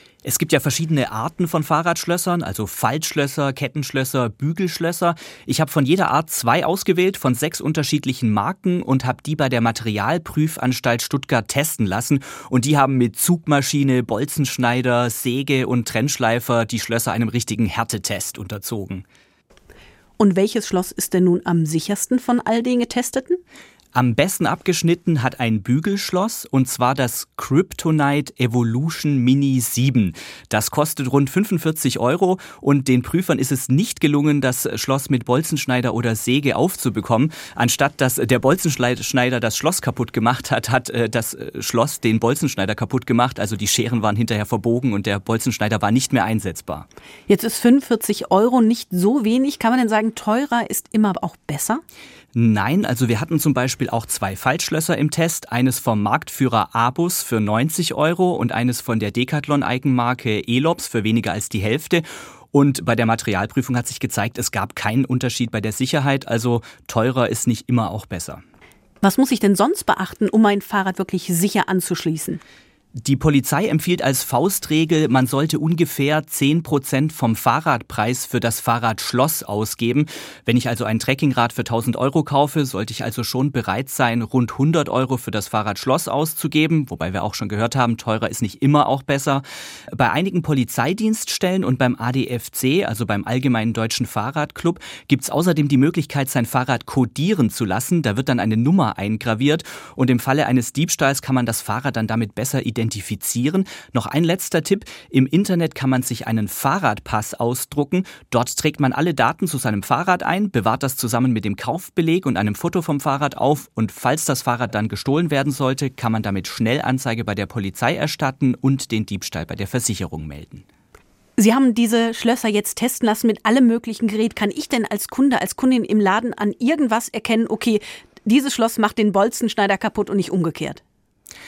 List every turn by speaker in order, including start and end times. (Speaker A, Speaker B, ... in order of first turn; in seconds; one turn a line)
Speaker A: 0.2-19.1
Speaker B: 20.2-23.4
Speaker A: 23.9-46.9
Speaker B: 47.3-51.8
Speaker A: 52.4-68.4
Speaker B: 69.0-72.4
Speaker A: 73.0-120.6
Speaker B: 121.4-130.8